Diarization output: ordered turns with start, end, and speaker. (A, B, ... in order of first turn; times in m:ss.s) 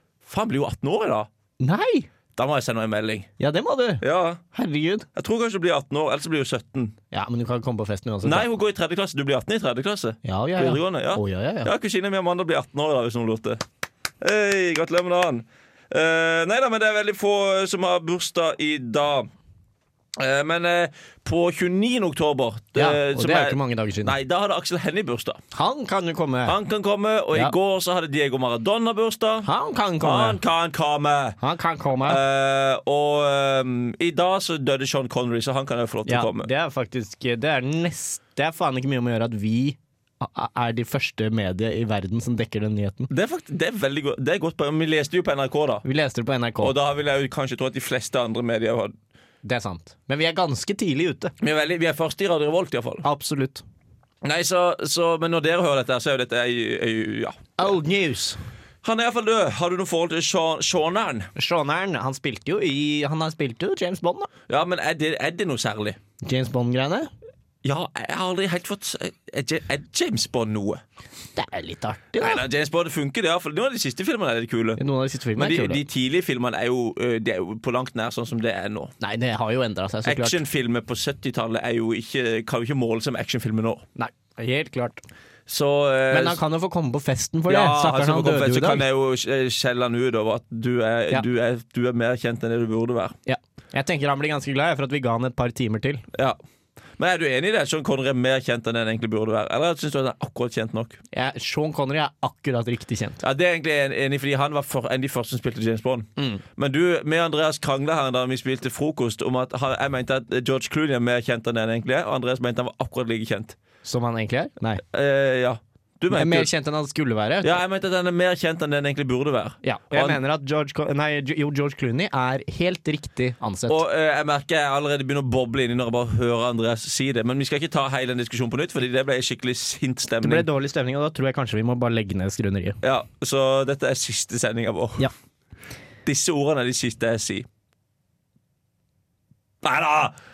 0:00.2-0:01.3 A
0:01.6-0:02.1 B
0:02.3-0:03.3 A
0:03.4-0:05.1 B
0:04.0-0:04.4 A
0:05.1-0:07.0 A
0:07.1-0:08.5 B
0:08.2-0:13.6 A
0:10.2-0:11.7 B
0:14.2-0:19.3 A
0:20.2-0:25.4 A
0:22.7-0:24.2 B
0:25.5-0:26.6 B
0:26.4-0:29.5 A
0:29.4-0:30.4 B
0:30.0-0:31.4 A
0:31.4-0:32.2 B
0:32.0-0:36.5 A
0:36.0-0:43.1 B
0:43.1-0:45.8 A
0:45.8-0:46.7 B
0:46.6-0:48.9 A
0:49.4-0:51.3 B
0:51.4-0:53.0 A
0:53.0-0:53.6 B
0:54.2-0:57.5 A
0:57.6-0:58.4 B
0:58.8-1:01.3 A
1:01.4-1:04.3 B
1:04.5-1:06.0 A
1:06.2-1:07.1 B
1:07.6-1:10.8 A
1:11.3-1:12.4 B
1:12.2-1:14.8 A
1:14.8-1:15.8 B
1:15.4-1:18.9 A
1:19.0-1:20.4 B
1:20.0-1:23.8 A
1:24.0-1:25.0 B
1:25.5-1:26.4 A
1:26.1-1:28.8 B
1:27.5-1:33.2 A
1:33.2-1:36.0 B
1:37.0-1:41.0 A
1:41.1-1:43.2 B
1:43.2-1:53.6 A
1:46.2-1:46.4 B
1:53.8-1:54.8 B
1:54.9-1:56.5 A
1:56.1-1:57.6 B
1:57.4-2:00.2 A
1:59.6-2:03.8 B
2:03.7-2:10.5 A
2:10.2-2:12.8 B
2:12.8-2:15.1 A
2:16.0-2:17.4 A
2:19.6-2:20.1 A